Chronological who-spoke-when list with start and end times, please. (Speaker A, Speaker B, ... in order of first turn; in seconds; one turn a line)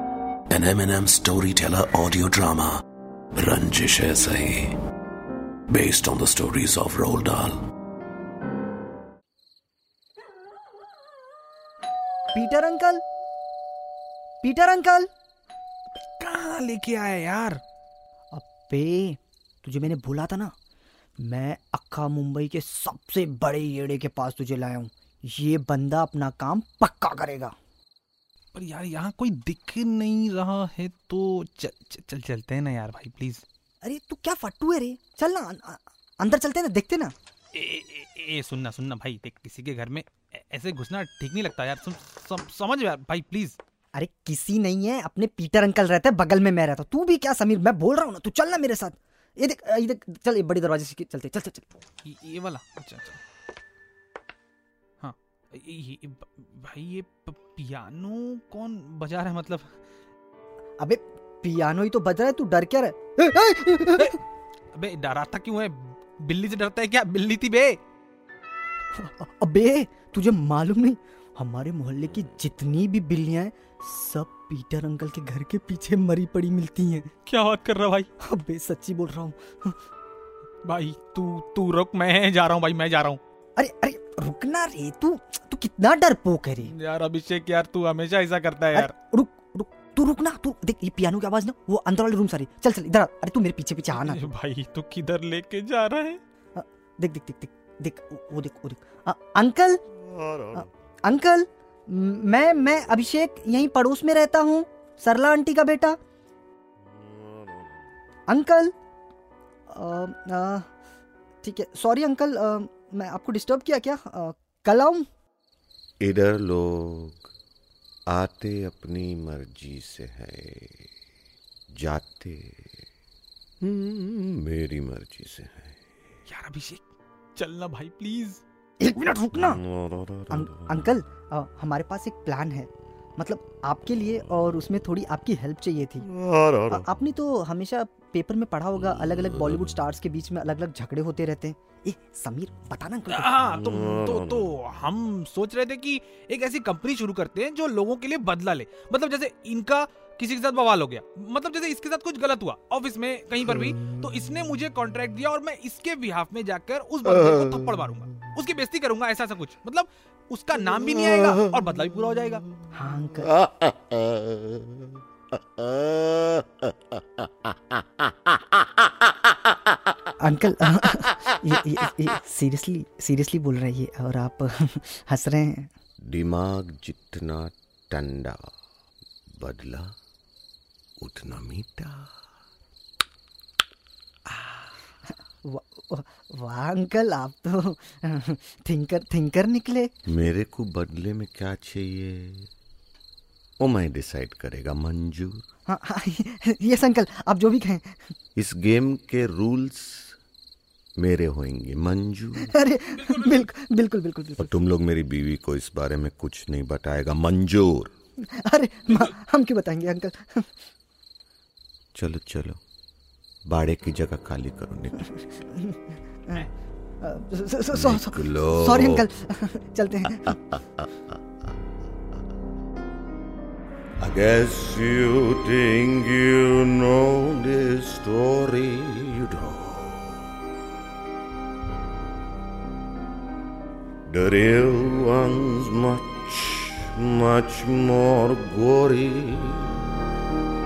Speaker A: 0.5-2.8
Speaker A: 3.4-4.8
Speaker A: 5.7-7.6
Speaker B: 12.3-13.0
Speaker B: 14.4-15.1
Speaker C: 16.2-17.6
Speaker B: 18.3-20.5
Speaker B: 21.2-27.5
Speaker C: 28.5-33.4
Speaker B: 33.8-37.1
Speaker C: 37.5-43.6
Speaker B: 43.9-51.6
Speaker C: 52.0-53.2
Speaker C: 55.0-59.7
Speaker B: 60.8-64.2
Speaker C: 64.7-67.8
Speaker B: 69.0-77.1
Speaker C: 77.2-78.1
Speaker B: 78.2-79.7
Speaker C: 80.6-83.2
Speaker B: 83.6-86.7
Speaker C: 86.6-88.9
Speaker B: 88.7-94.2
Speaker C: 93.9-96.2
Speaker B: 96.5-99.8
Speaker D: 100.1-100.6
Speaker B: 100.5-106.0
Speaker D: 107.0-107.7
Speaker B: 108.3-108.7
Speaker B: 109.7-110.7
Speaker B: 111.4-115.0
Speaker D: 116.0-117.3
Speaker D: 118.1-120.8
Speaker D: 121.7-122.7
Speaker D: 123.6-125.8
Speaker C: 126.3-128.4
Speaker B: 128.8-129.6
Speaker D: 129.4-130.5
Speaker B: 130.3-136.1
Speaker D: 136.0-136.8
Speaker B: 136.7-143.5
Speaker C: 143.1-162.5
Speaker B: 162.7-163.4
Speaker D: 163.5-164.7
Speaker D: 165.6-166.5
Speaker B: 170.2-175.7
Speaker D: 176.0-178.5
Speaker D: 179.3-179.9
Speaker D: 181.0-182.1
Speaker B: 185.4-189.9
Speaker D: 190.1-192.5
Speaker D: 193.6-195.4
Speaker B: 195.7-198.1
Speaker D: 198.3-200.2
Speaker D: 201.0-202.5
Speaker B: 202.4-204.5
Speaker C: 202.9-203.4
Speaker D: 204.4-207.9
Speaker B: 208.3-210.5
Speaker D: 211.9-212.6
Speaker D: 213.5-215.1
Speaker B: 215.1-216.5
Speaker B: 217.0-220.4
Speaker D: 217.7-219.0
Speaker D: 224.0-230.1
Speaker D: 234.1-239.8